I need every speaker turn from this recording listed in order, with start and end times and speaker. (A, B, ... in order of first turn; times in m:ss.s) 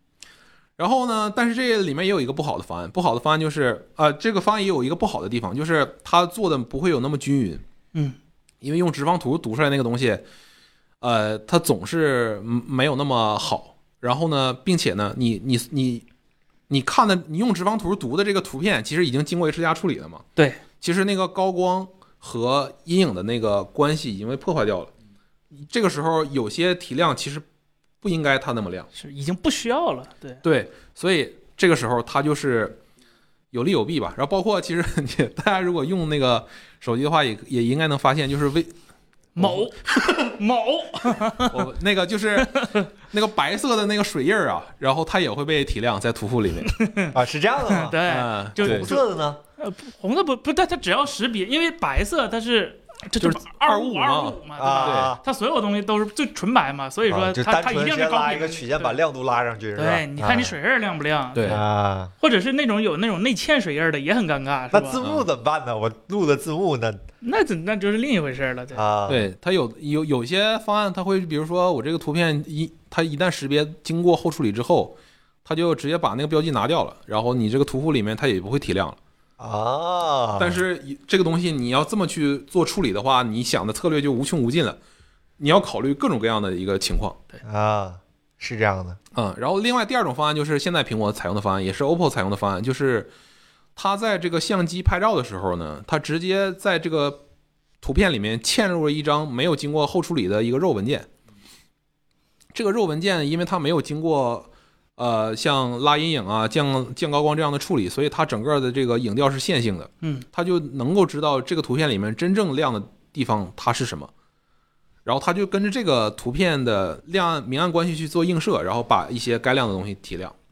0:00.8-0:07.6 A
0:08.6-0:10.2 A
0:11.0-0:16.0 A
0:16.7-0:20.2 A
0:20.8-0:24.9 A
0:25.6-0:27.4 A
0:28.0-0:28.9 A
0:28.9-0:30.4 B
0:30.4-0:32.8 A
0:33.5-0:38.7 A
0:39.4-0:41.6 B
0:39.4-0:39.7 A
0:41.4-0:46.7 A
0:42.4-0:42.9 B
0:46.6-0:47.1 B
0:47.1-0:48.0 C
0:47.7-0:59.0 B
0:48.0-0:48.9 A
0:48.6-0:49.4 C
0:53.2-0:55.1 A
0:54.6-0:55.2 C
0:57.1-1:00.5 C
0:59.8-1:01.6 B
1:01.3-1:01.6 A
1:01.4-1:02.1 C
1:02.2-1:05.0 B
1:04.7-1:07.0 C
1:05.0-1:05.3 A
1:07.2-1:08.8 B
1:08.7-1:09.3 C
1:09.1-1:19.0 A
1:19.4-1:20.6 C
1:20.4-1:24.8 A
1:25.4-1:27.2 A
1:27.4-1:29.0 C
1:29.1-1:33.1 A
1:33.8-1:37.2 A
1:37.8-1:41.1 A
1:42.5-1:54.1 A
1:55.0-2:00.3 A